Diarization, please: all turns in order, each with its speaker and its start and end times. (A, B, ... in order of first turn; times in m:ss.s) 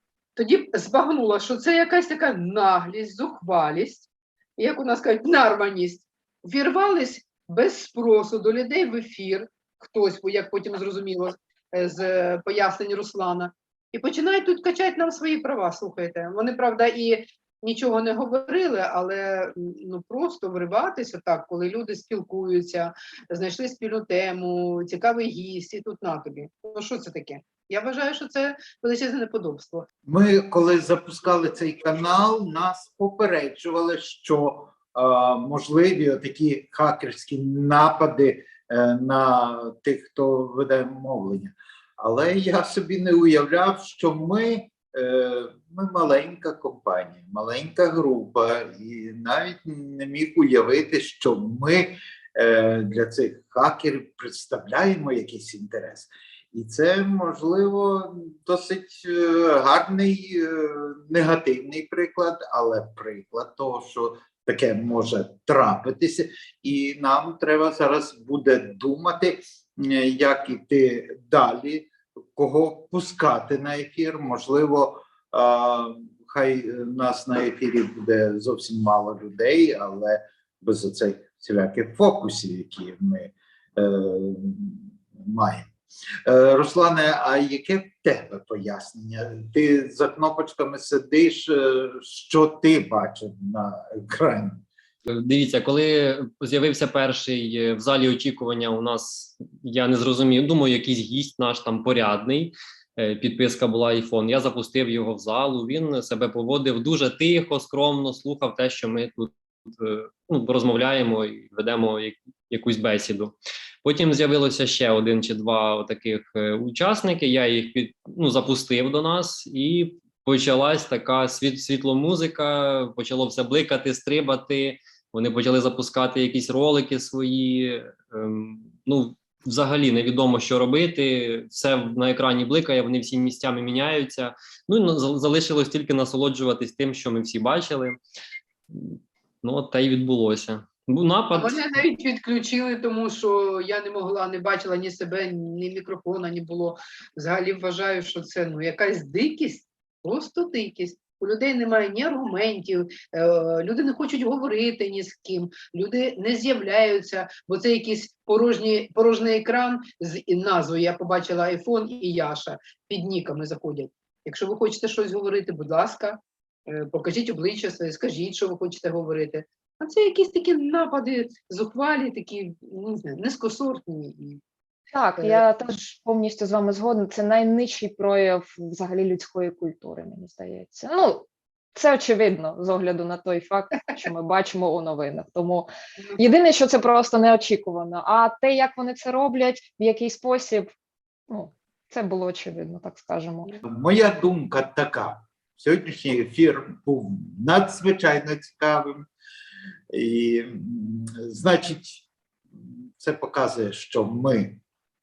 0:00.4-0:29.8 A
0:30.1-1:25.7 B
1:26.2-1:34.6 B
1:35.1-2:18.0 C
2:18.7-2:21.6 C
2:21.3-2:54.4 A
2:54.9-3:10.7 D
2:55.2-2:55.4 A
3:11.3-3:13.6 D
3:13.6-3:19.0 B
3:19.9-3:24.6 B